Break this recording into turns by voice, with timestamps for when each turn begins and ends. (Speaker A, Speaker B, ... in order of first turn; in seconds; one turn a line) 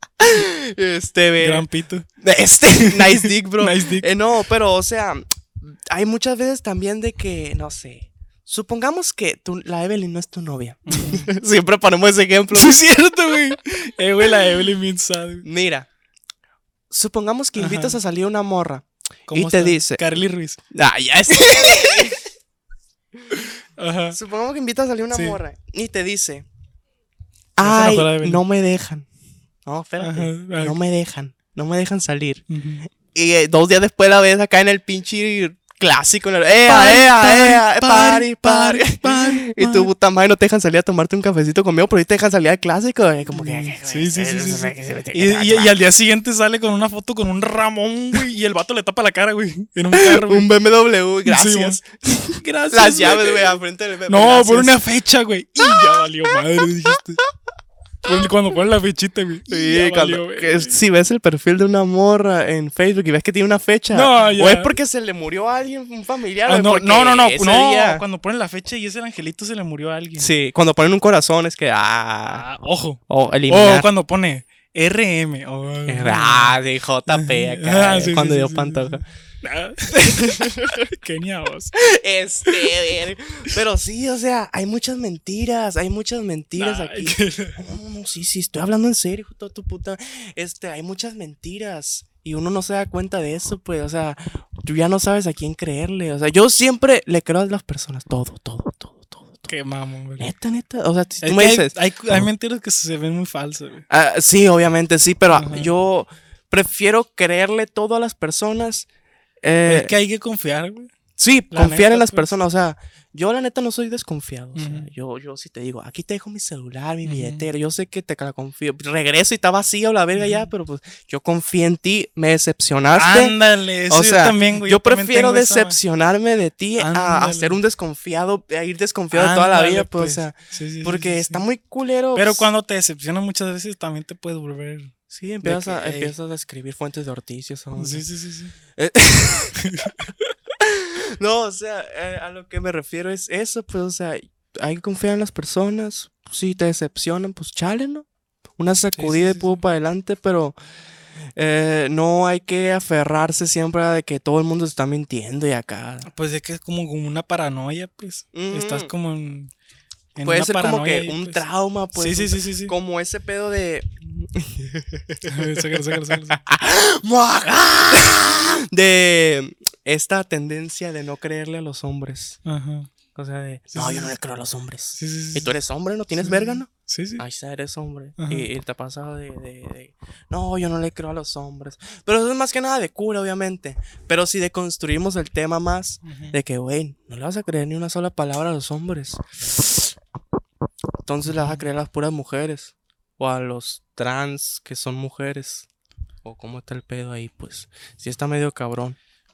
Speaker A: 0.2-1.6
Speaker B: 1.4-2.1
Speaker A: 2.2-12.8
Speaker B: 2.8-4.1
Speaker B: 10.9-11.3
Speaker B: 12.5-15.4
Speaker A: 15.4-15.9
Speaker A: 16.9-20.0
Speaker B: 17.6-18.0
Speaker B: 19.3-20.6
Speaker A: 20.7-22.2
Speaker B: 21.3-22.1
Speaker A: 23.1-23.5
Speaker B: 23.8-24.2
Speaker A: 24.1-26.4
Speaker B: 25.1-25.4
Speaker A: 27.6-29.1
Speaker B: 27.6-28.4
Speaker A: 29.6-32.4
Speaker B: 30.0-30.8
Speaker B: 32.5-32.9
Speaker A: 32.9-45.8
Speaker B: 36.6-39.9
Speaker B: 43.3-50.5
Speaker A: 49.9-54.8
Speaker B: 51.2-51.8
Speaker B: 52.3-53.5
Speaker B: 54.1-57.2
Speaker A: 55.6-56.0
Speaker B: 58.0-60.8
Speaker A: 59.5-68.0
Speaker B: 63.9-64.7
Speaker B: 66.5-70.3
Speaker A: 70.2-72.4
Speaker B: 72.3-76.6
Speaker A: 73.1-73.9
Speaker A: 75.9-79.0
Speaker B: 77.1-81.8
Speaker A: 80.0-80.8
Speaker A: 81.8-99.5
Speaker B: 82.5-82.7
Speaker B: 86.5-87.6
Speaker B: 99.5-100.3
Speaker A: 100.2-102.2
Speaker B: 101.2-103.8
Speaker A: 103.9-108.9
Speaker B: 105.3-105.7
Speaker A: 109.4-109.9
Speaker B: 109.7-110.9
Speaker A: 111.2-123.3
Speaker B: 111.5-112.3
Speaker B: 114.5-114.9
Speaker B: 117.0-117.5
Speaker B: 120.1-120.5
Speaker B: 122.9-125.8
Speaker A: 123.9-132.5
Speaker B: 126.8-127.6
Speaker B: 129.1-131.4
Speaker B: 132.1-136.1
Speaker A: 135.1-138.0
Speaker B: 137.7-138.5
Speaker A: 138.7-140.1
Speaker B: 139.6-140.3
Speaker A: 140.6-148.1
Speaker A: 148.6-150.6
Speaker B: 148.9-149.6
Speaker A: 151.3-156.1
Speaker B: 156.1-159.5
Speaker A: 158.3-158.9
Speaker B: 160.1-161.4
Speaker A: 160.2-172.4
Speaker B: 161.9-162.7
Speaker B: 165.3-166.4
Speaker B: 172.4-172.9
Speaker A: 173.1-189.9
Speaker B: 173.7-174.2
Speaker B: 175.0-175.5
Speaker B: 176.2-177.2
Speaker B: 178.2-178.5
Speaker B: 186.0-186.3
Speaker A: 191.0-195.7
Speaker B: 191.3-191.6
Speaker A: 196.2-199.0